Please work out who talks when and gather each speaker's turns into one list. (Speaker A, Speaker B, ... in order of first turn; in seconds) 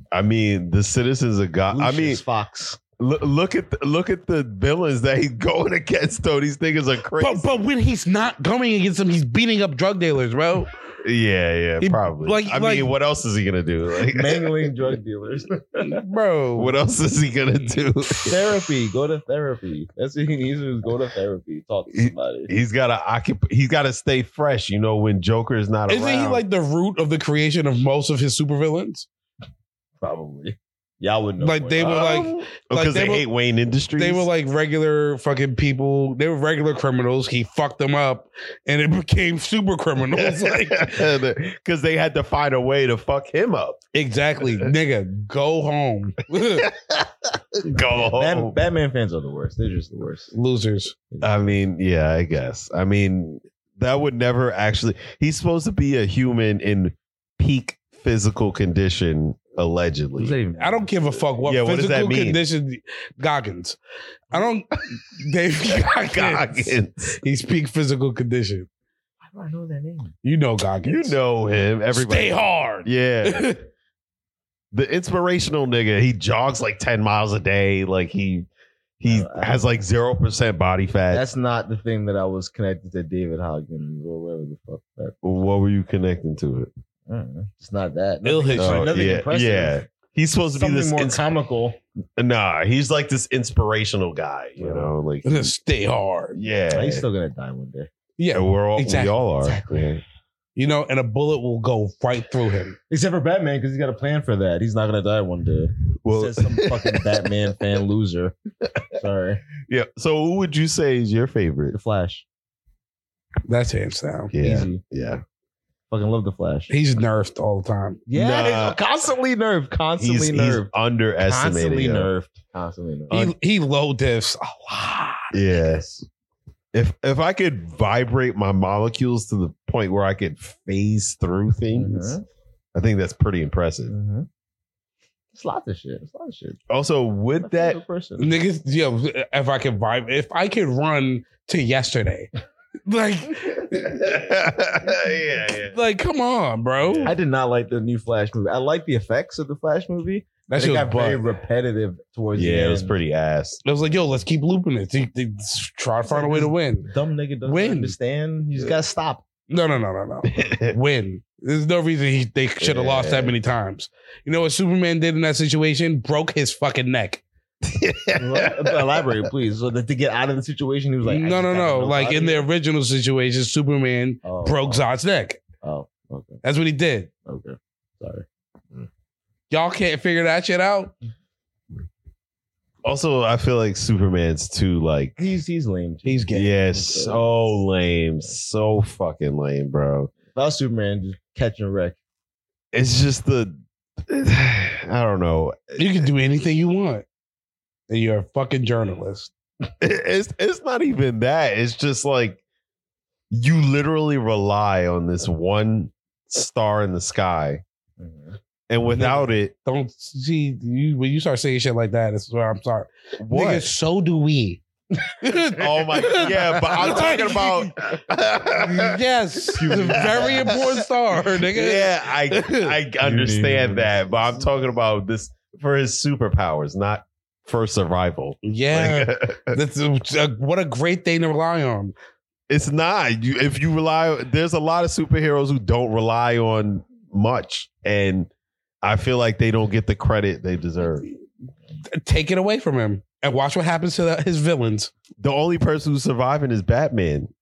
Speaker A: 0.1-2.2, 3.0-7.6, 11.0-14.8, 16.6-18.4, 21.9-26.4, 31.8-34.3, 40.1-43.8, 44.4-44.7, 46.3-48.6, 51.2-60.4, 61.4-62.4, 65.7-67.2, 70.8-73.5, 74.7-78.5, 79.0-81.3, 85.2-86.7, 88.6-91.2, 92.2-95.5, 96.3-97.1, 98.3-100.0, 106.0-107.3, 109.7-111.8, 114.3-115.2, 118.1-118.8, 120.0-122.1, 125.3-126.1, 126.7-132.2, 132.8-133.9, 136.7-137.8, 143.7-145.8, 146.8-147.2, 152.4-153.6, 160.3-160.8, 162.6-163.3, 167.6-169.0, 182.8-185.2, 186.3-190.1, 192.7-196.1, 199.8-202.4, 203.3-207.6, 208.7-209.5, 213.2-213.7, 215.6-219.0, 219.6-220.7, 221.4-229.6, 232.5-238.3, 238.8-241.1, 245.2-247.3
Speaker B: 1.7-2.8, 14.1-16.0, 18.3-22.5, 30.0-32.4, 48.0-50.3, 51.1-51.5, 60.2-61.4, 69.2-70.2, 79.0-79.8, 81.1-85.2, 87.1-89.8, 90.5-91.8, 94.6-94.9, 96.7-97.9, 99.4-100.0, 102.9-108.4, 108.9-109.4, 111.7-112.2, 114.4-114.8, 115.9-116.8, 118.1-123.3, 131.7-132.2, 133.9-134.3, 135.3-136.6, 137.4-138.4, 147.1-152.9, 156.1-159.3, 168.2-172.5, 174.2-174.8, 175.6-176.4, 177.3-178.9, 185.2-187.3, 190.3-192.0, 208.0-208.4, 216.5-217.5, 219.6-220.8, 223.0-224.5
Speaker C: 7.2-10.7, 11.8-12.9, 15.8-16.8, 25.9-29.1, 31.4-33.3, 34.0-41.0, 43.9-46.7, 50.3-51.0, 60.6-63.8, 64.3-68.7, 70.2-71.2, 71.9-73.6, 88.2-88.9, 95.2-96.4, 98.2-99.2, 100.6-102.8, 113.5-114.3, 116.7-118.0, 123.1-125.3, 138.2-142.3, 142.9-144.1, 145.7-147.1, 150.5-151.2, 153.7-156.9, 157.4-157.9, 159.5-167.2, 171.0-175.4, 176.4-177.1, 179.5-180.9, 186.1-186.5, 195.8-197.1, 197.9-199.3, 208.9-214.6, 215.2-217.7, 218.7-222.8, 228.4-231.9, 242.0-244.9